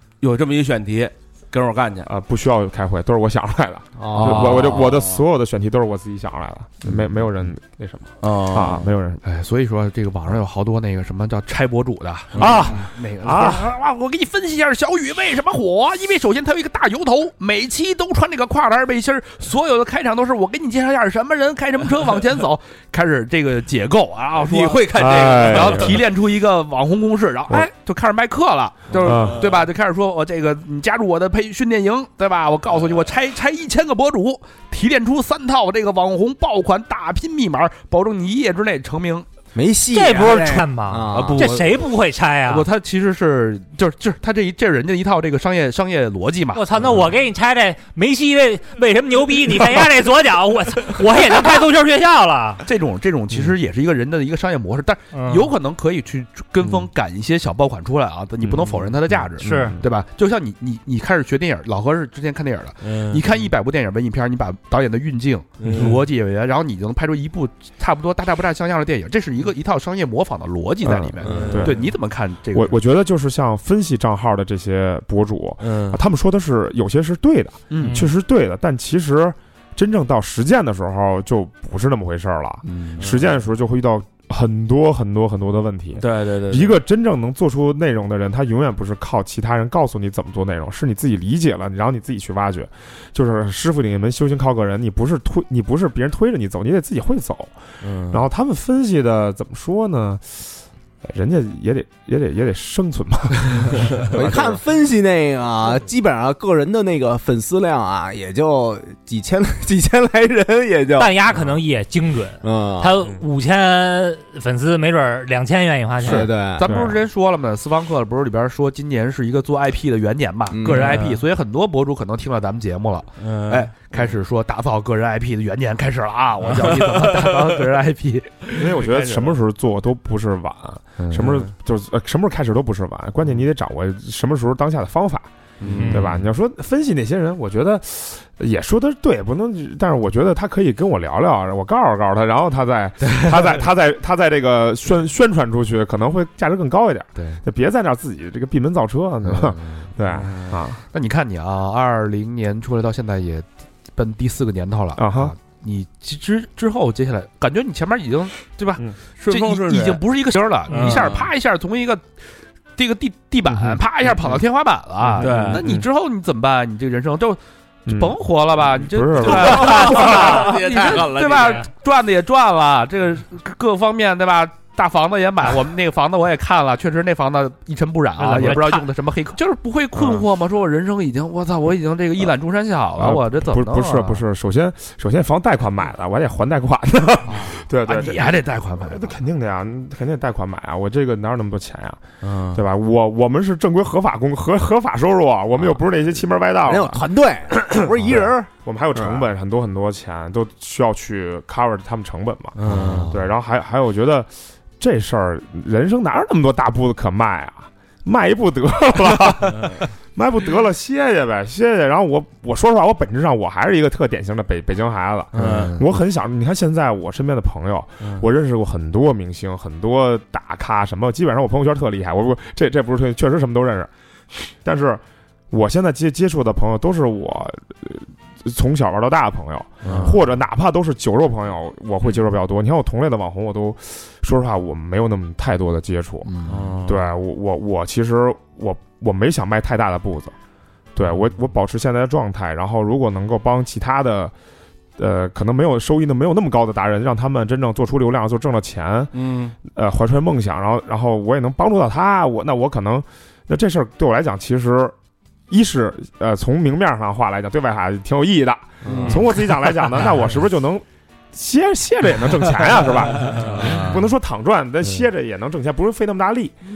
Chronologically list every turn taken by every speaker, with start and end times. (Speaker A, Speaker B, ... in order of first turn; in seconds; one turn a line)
Speaker A: 0.2-2.1
Speaker B: 2.0-9.2
Speaker C: 4.0-4.5
Speaker D: 4.1-4.8
Speaker A: 4.2-5.2
Speaker A: 8.2-8.8
Speaker D: 9.2-39.3
Speaker A: 12.3-12.7
Speaker B: 12.3-13.7
Speaker A: 24.4-26.1
Speaker B: 24.9-26.0
Speaker A: 28.9-29.5
Speaker B: 29.0-29.4
Speaker C: 39.5-41.6
Speaker E: 39.9-42.7
Speaker D: 41.1-41.9
Speaker D: 42.4-47.0
Speaker E: 46.5-52.6
Speaker D: 52.6-72.8
Speaker E: 55.1-55.5
Speaker B: 58.4-59.8
Speaker E: 59.4-59.8
Speaker A: 62.8-63.4
Speaker A: 65.6-66.0
Speaker B: 65.7-65.9
Speaker B: 70.8-71.8
Speaker A: 71.2-71.9
Speaker B: 72.5-104.6
Speaker A: 75.6-76.0
Speaker D: 77.7-78.1
Speaker D: 82.6-83.1
Speaker A: 83.0-83.3
Speaker A: 86.0-86.8
Speaker A: 97.8-98.2
Speaker C: 104.1-111.1
Speaker E: 111.0-116.3
Speaker C: 112.4-112.9
Speaker C: 116.0-116.7
Speaker B: 116.0-117.0
Speaker D: 116.5-129.3
Speaker C: 120.5-121.0
Speaker A: 120.7-121.2
Speaker A: 123.2-124.0
Speaker A: 126.6-127.2
Speaker B: 128.5-135.3
Speaker D: 131.0-131.4
Speaker A: 135.6-136.1
Speaker D: 135.6-136.1
Speaker E: 135.8-136.0
Speaker B: 135.9-150.8
Speaker D: 149.2-149.9
Speaker A: 150.2-150.6
Speaker D: 150.9-162.1
Speaker B: 154.9-155.3
Speaker A: 159.2-160.0
Speaker A: 160.7-161.3
Speaker E: 160.7-161.0
Speaker D: 162.8-184.2
Speaker B: 163.5-163.8
Speaker B: 165.0-165.8
Speaker A: 165.2-165.6
Speaker B: 167.9-170.4
Speaker A: 169.4-171.7
Speaker E: 178.2-178.9
Speaker B: 179.9-180.2
Speaker B: 183.0-197.0
Speaker D: 187.3-189.2
Speaker A: 192.2-192.6
Speaker C: 196.7-199.2
Speaker B: 197.6-223.9
Speaker A: 202.6-203.1
Speaker D: 202.7-203.1
Speaker C: 202.7-203.0
Speaker D: 215.3-215.8
Speaker A: 215.3-215.8
Speaker B: 224.5-236.3
Speaker A: 229.8-230.2
Speaker D: 229.8-230.2
Speaker D: 236.2-236.8
Speaker A: 236.4-237.0
Speaker B: 236.8-240.3
Speaker B: 240.9-244.3
Speaker B: 245.0-254.9
Speaker A: 249.1-249.5
Speaker B: 255.5-266.6
Speaker D: 258.9-259.1
Speaker A: 258.9-259.3
Speaker A: 263.3-264.0
Speaker D: 263.5-263.9